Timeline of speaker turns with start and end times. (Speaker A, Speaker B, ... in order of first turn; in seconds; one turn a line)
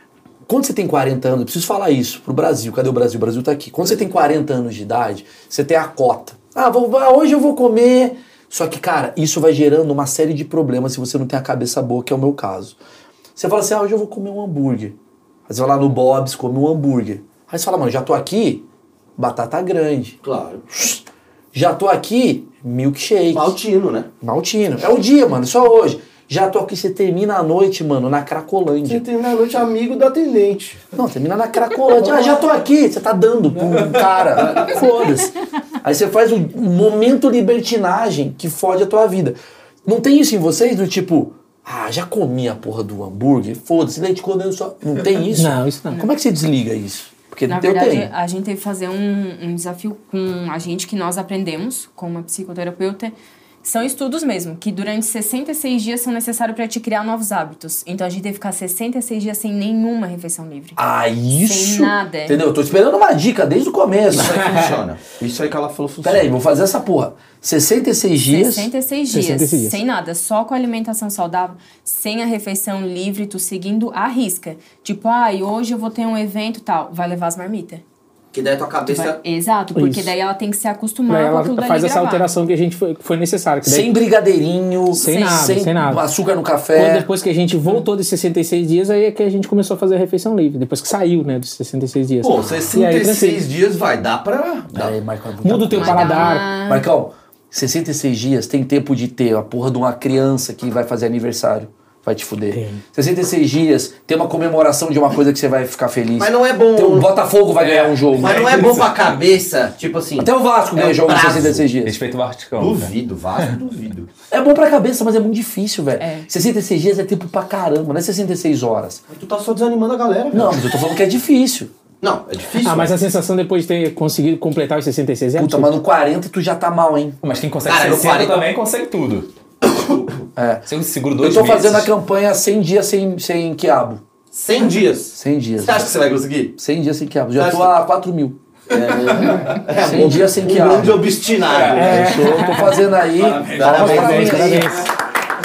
Speaker A: 0.5-12.8
Speaker A: 13.4-15.0
Speaker A: 15.5-18.6
Speaker A: 19.2-20.2
Speaker B: 20.2-20.7
Speaker A: 20.7-23.6
Speaker B: 23.3-24.1
Speaker A: 24.2-29.1
Speaker B: 28.8-30.8
Speaker A: 31.0-48.1
Speaker B: 34.4-34.8
Speaker C: 45.3-46.0
Speaker D: 47.5-60.8
Speaker A: 60.8-64.4
Speaker D: 61.5-62.4
Speaker B: 64.1-66.3
Speaker A: 66.0-68.7
Speaker D: 68.3-77.8
Speaker C: 69.1-69.8
Speaker B: 78.3-79.2
Speaker D: 78.9-82.3
Speaker C: 79.8-80.1
Speaker C: 81.1-84.0
Speaker A: 83.6-87.1
Speaker C: 85.0-86.0
Speaker D: 85.0-85.6
Speaker C: 86.8-93.4
Speaker B: 92.2-95.0
Speaker A: 94.7-108.6
Speaker C: 95.4-96.5
Speaker D: 95.8-96.8
Speaker C: 102.5-102.8
Speaker B: 106.2-107.1
Speaker B: 107.6-111.7
Speaker E: 107.7-109.0
Speaker A: 110.2-112.0
Speaker E: 111.8-113.5
Speaker B: 112.6-114.1
Speaker A: 114.3-119.0
Speaker D: 116.0-116.3
Speaker B: 119.1-120.7
Speaker A: 120.3-121.7
Speaker B: 122.0-123.0
Speaker C: 122.6-125.8
Speaker A: 125.4-127.2
Speaker E: 127.2-129.3
Speaker B: 127.7-128.4
Speaker B: 129.7-130.1
Speaker A: 130.4-134.0
Speaker E: 130.7-131.9
Speaker B: 134.3-136.6
Speaker A: 135.2-135.9
Speaker A: 136.6-138.4
Speaker B: 137.3-137.8
Speaker B: 138.7-142.1
Speaker A: 139.8-141.1
Speaker E: 141.3-141.9
Speaker C: 141.8-142.8
Speaker A: 141.8-144.8
Speaker E: 143.1-144.7
Speaker B: 143.5-144.6
Speaker C: 143.6-144.9